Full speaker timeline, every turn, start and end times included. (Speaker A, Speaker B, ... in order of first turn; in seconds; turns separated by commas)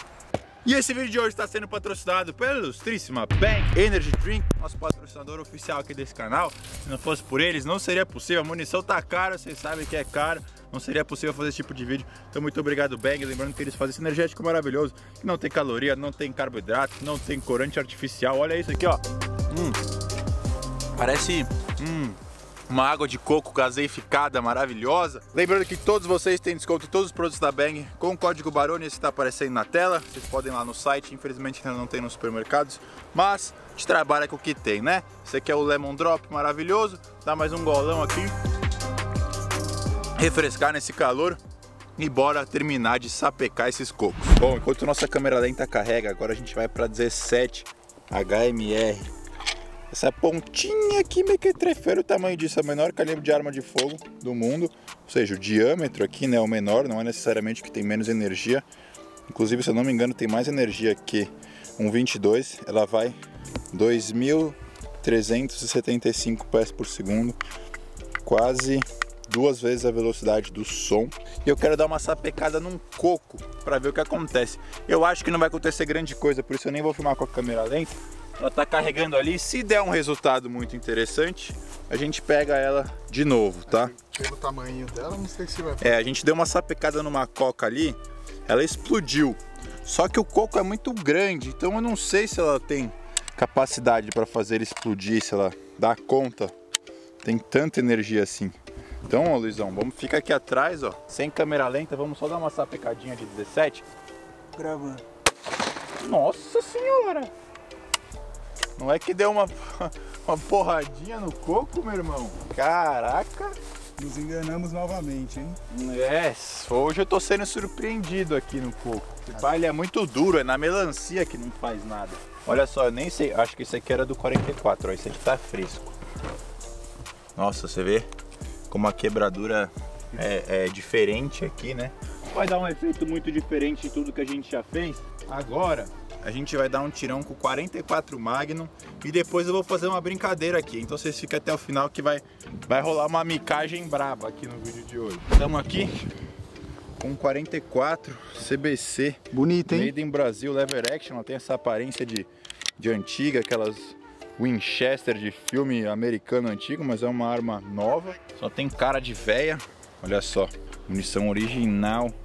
Speaker A: 0.6-19.8, Speaker A: 20.9-38.3, Speaker A: 40.1-41.4, Speaker A: 42.0-49.1, Speaker A: 49.9-58.6, Speaker A: 59.3-63.1, Speaker A: 63.7-67.4, Speaker A: 68.2-83.9, Speaker B: 83.7-85.9, Speaker A: 85.8-96.5, Speaker A: 97.2-103.8, Speaker B: 104.5-105.0, Speaker A: 106.0-107.3, Speaker A: 108.8-113.5, Speaker B: 114.0-115.6, Speaker A: 115.7-125.9, Speaker A: 127.3-128.1, Speaker A: 128.7-146.0, Speaker A: 147.0-162.2, Speaker B: 149.3-149.9